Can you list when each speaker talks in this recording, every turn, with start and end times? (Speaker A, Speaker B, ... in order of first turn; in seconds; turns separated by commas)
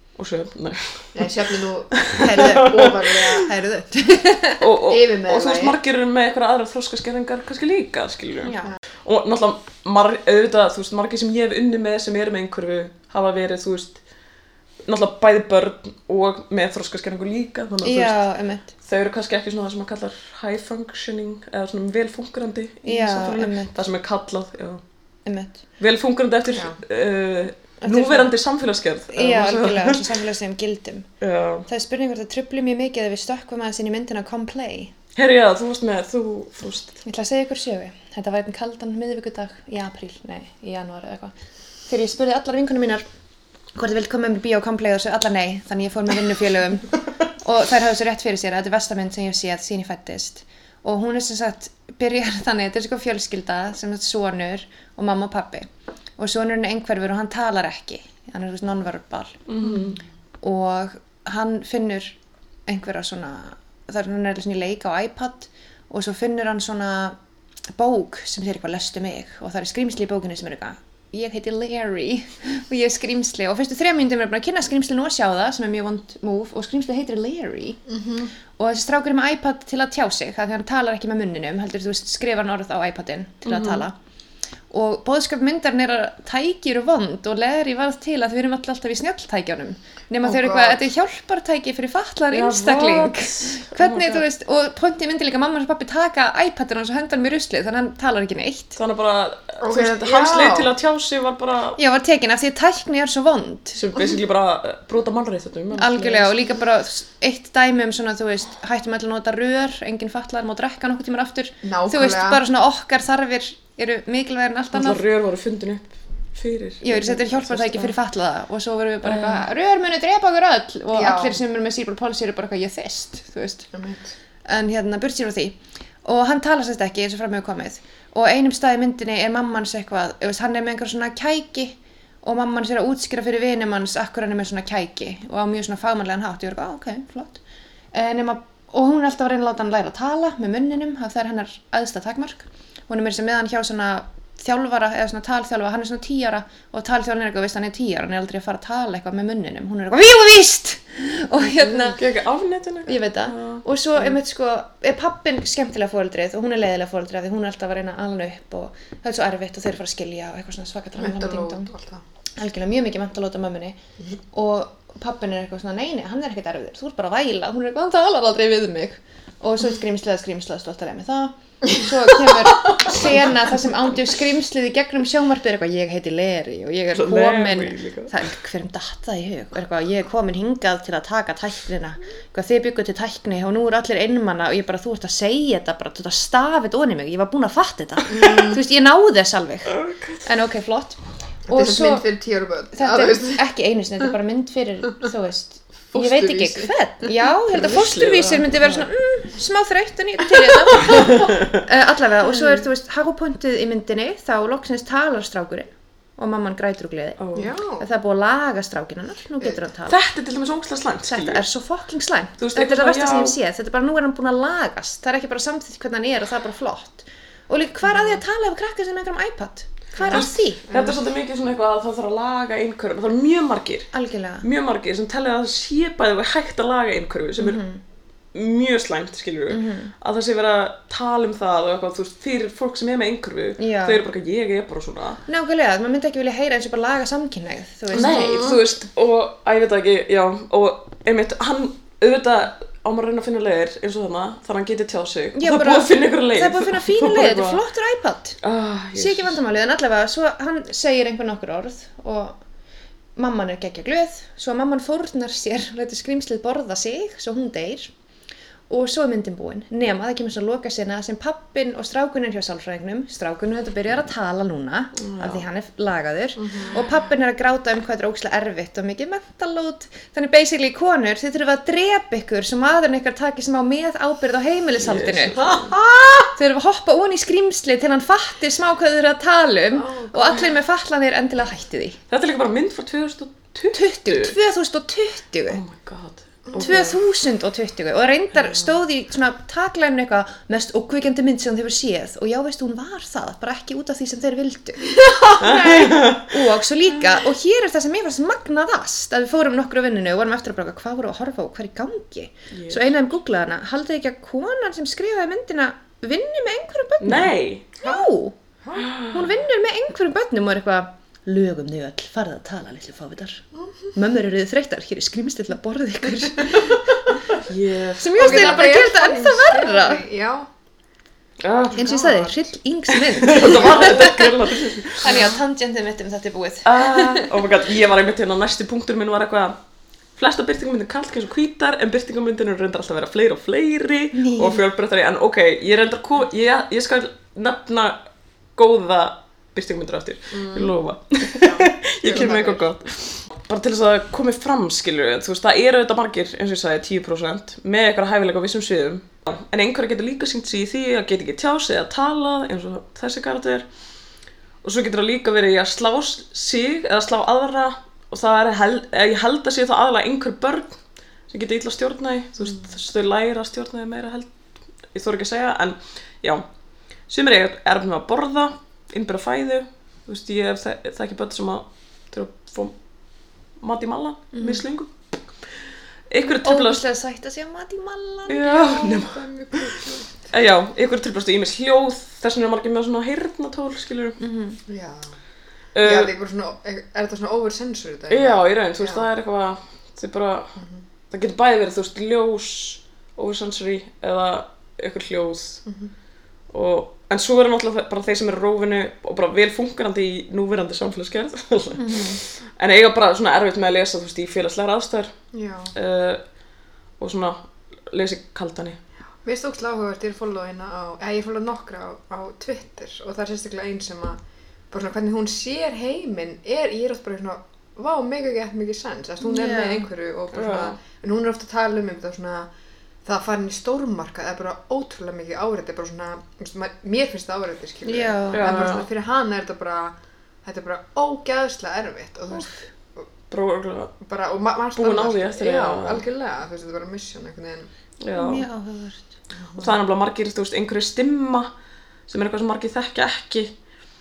Speaker A: 0.2-1.4, Speaker B: 1.1-3.5, Speaker A: 1.9-3.4, Speaker C: 2.2-4.6, Speaker A: 4.6-14.0, Speaker B: 4.8-5.8, Speaker C: 8.4-8.7, Speaker A: 14.8-18.2, Speaker C: 17.8-18.7, Speaker A: 18.8-24.8, Speaker C: 22.8-23.7, Speaker C: 25.2-25.6, Speaker A: 25.8-30.2, Speaker B: 26.5-26.8, Speaker C: 27.8-28.3, Speaker C: 29.1-31.1, Speaker A: 31.2-31.6, Speaker C: 31.7-34.9, Speaker A: 35.1-37.0, Speaker C: 37.0-41.3, Speaker C: 41.9-43.0, Speaker C: 43.7-55.7, Speaker C: 56.2-59.4, Speaker A: 59.5-60.0, Speaker C: 60.4-67.2, Speaker C: 67.7-77.8, Speaker B: 77.9-78.3, Speaker C: 78.6-83.9, Speaker A: 83.5-83.8, Speaker C: 84.7-98.8, Speaker B: 90.2-90.8, Speaker A: 92.3-94.2, Speaker A: 98.8-101.8, Speaker B: 99.6-100.7, Speaker C: 101.8-104.2, Speaker A: 103.7-106.3, Speaker C: 105.8-115.0, Speaker B: 111.6-112.4, Speaker A: 114.7-117.9, Speaker C: 116.8-123.7, Speaker A: 119.0-119.4, Speaker B: 120.9-121.4, Speaker B: 123.7-124.1, Speaker C: 124.5-137.4, Speaker C: 137.9-152.0, Speaker A: 151.9-153.6, Speaker C: 152.8-161.7, Speaker B: 161.0-162.0, Speaker C: 162.4-163.8, Speaker C: 164.3-192.1, Speaker A: 172.7-173.0, Speaker A: 176.9-178.1, Speaker B: 188.1-188.6, Speaker A: 189.7-190.2, Speaker B: 191.5-193.4, Speaker C: 192.7-207.2, Speaker B: 195.9-196.7, Speaker A: 197.5-198.9, Speaker A: 200.9-201.5, Speaker A: 207.2-207.5, Speaker B: 207.3-207.9, Speaker C: 207.8-209.9, Speaker A: 209.9-211.4, Speaker C: 211.1-220.6, Speaker A: 212.4-213.3, Speaker B: 219.9-221.0, Speaker A: 220.0-223.9, Speaker C: 223.9-224.4, Speaker A: 224.4-227.6, Speaker C: 227.4-227.8, Speaker A: 228.3-235.2, Speaker C: 229.5-229.9, Speaker C: 233.6-234.0, Speaker C: 235.3-238.6, Speaker B: 237.9-238.6, Speaker A: 237.9-247.6, Speaker C: 245.3-248.4, Speaker A: 248.4-249.3, Speaker C: 248.9-252.4, Speaker C: 253.2-257.9, Speaker C: 258.7-275.4, Speaker A: 265.0-265.4, Speaker B: 266.4-266.8, Speaker A: 274.8-275.8, Speaker B: 275.4-276.3, Speaker C: 276.4-282.0, Speaker B: 279.7-280.4, Speaker A: 282.1-284.3, Speaker C: 283.7-285.6, Speaker A: 285.5-287.0, Speaker B: 286.5-286.8, Speaker C: 286.6-308.4, Speaker B: 294.9-295.8, Speaker A: 295.4-296.4, Speaker A: 302.5-302.9, Speaker A: 307.0-307.7, Speaker B: 307.8-308.1, Speaker B: 308.6-308.9, Speaker A: 308.8-309.2, Speaker C: 309.1-317.0, Speaker A: 317.3-318.6, Speaker C: 318.0-320.0, Speaker B: 318.1-320.5, Speaker A: 321.4-322.0, Speaker C: 321.7-324.3, Speaker B: 321.8-322.3, Speaker A: 322.9-325.2, Speaker C: 325.0-327.3, Speaker B: 325.0-325.4, Speaker A: 326.6-329.6, Speaker A: 330.2-338.0, Speaker C: 334.1-334.6, Speaker A: 338.6-353.6, Speaker B: 340.3-342.7, Speaker A: 354.6-360.8, Speaker A: 361.3-364.3, Speaker A: 364.9-366.4, Speaker A: 367.1-372.7, Speaker A: 373.6-374.9, Speaker C: 374.3-374.6, Speaker A: 376.1-376.8, Speaker C: 376.2-379.0, Speaker A: 378.3-384.2, Speaker B: 378.9-380.3, Speaker C: 384.2-384.6, Speaker B: 384.7-385.2, Speaker A: 385.7-386.1, Speaker B: 385.8-389.1, Speaker A: 388.1-390.5, Speaker B: 390.6-390.8, Speaker A: 391.1-395.6, Speaker B: 395.6-395.9, Speaker A: 396.5-405.1, Speaker C: 401.7-402.2, Speaker B: 405.3-405.7, Speaker A: 405.7-406.2, Speaker A: 407.0-408.8, Speaker B: 409.2-422.5, Speaker C: 419.2-419.9, Speaker A: 420.3-420.8, Speaker B: 423.0-433.1, Speaker C: 427.8-428.6, Speaker A: 428.3-428.9, Speaker A: 433.3-433.9, Speaker B: 434.0-437.7, Speaker A: 434.8-436.0, Speaker A: 438.0-438.4, Speaker C: 438.1-439.1, Speaker B: 439.4-439.7, Speaker A: 439.6-441.5, Speaker A: 442.1-443.5